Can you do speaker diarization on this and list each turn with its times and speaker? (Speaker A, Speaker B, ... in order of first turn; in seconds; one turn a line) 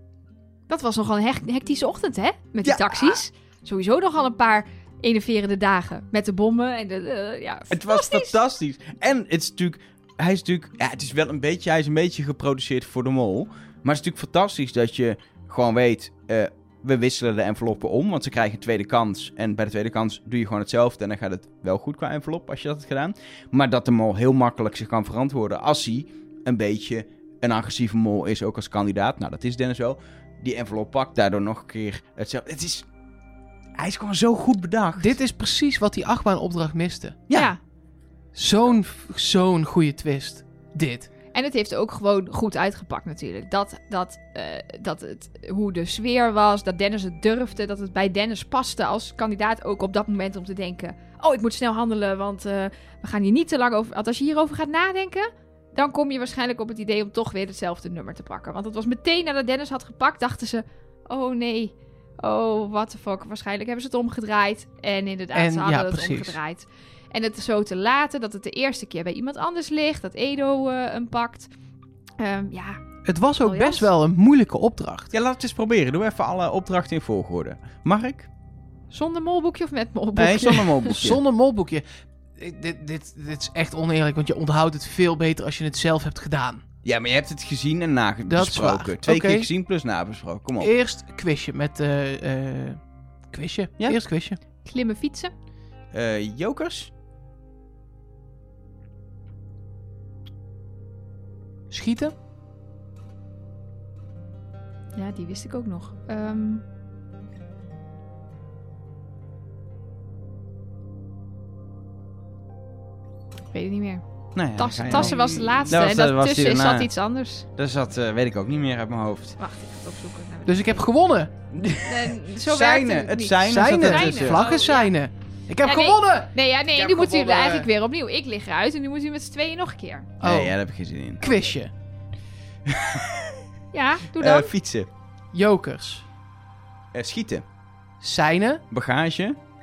Speaker A: 0.7-8.4
Speaker B: 2.6-3.2
Speaker B: 7.7-32.9
Speaker B: 33.8-35.1
Speaker C: 35.0-37.2
Speaker C: 38.4-41.1
Speaker A: 41.3-71.5
Speaker C: 65.3-66.4
Speaker A: 72.2-72.8
Speaker C: 73.0-75.1
Speaker A: 73.4-73.9
Speaker B: 75.1-78.3
Speaker A: 78.9-81.0
Speaker B: 80.2-81.2
Speaker C: 80.9-81.8
Speaker C: 82.4-86.6
Speaker B: 86.8-90.7
Speaker C: 88.3-89.5
Speaker C: 90.6-94.4
Speaker A: 94.6-95.3
Speaker B: 95.9-96.9
Speaker C: 101.7-102.1
Speaker A: 105.0-106.6
Speaker A: 113.5-114.0
Speaker B: 114.3-116.9
Speaker A: 114.6-117.5
Speaker C: 114.9-115.7
Speaker B: 117.5-119.4
Speaker A: 119.4-120.8
Speaker C: 120.5-121.3
Speaker B: 121.5-124.4
Speaker A: 121.8-124.9
Speaker C: 123.4-127.5
Speaker A: 125.6-130.1
Speaker B: 126.8-127.7
Speaker C: 130.2-130.6
Speaker B: 130.2-131.3
Speaker C: 131.2-131.7
Speaker B: 132.7-133.4
Speaker A: 133.7-134.5
Speaker B: 134.2-134.9
Speaker C: 135.3-136.1
Speaker B: 136.9-137.4
Speaker C: 138.0-138.6
Speaker B: 138.7-139.4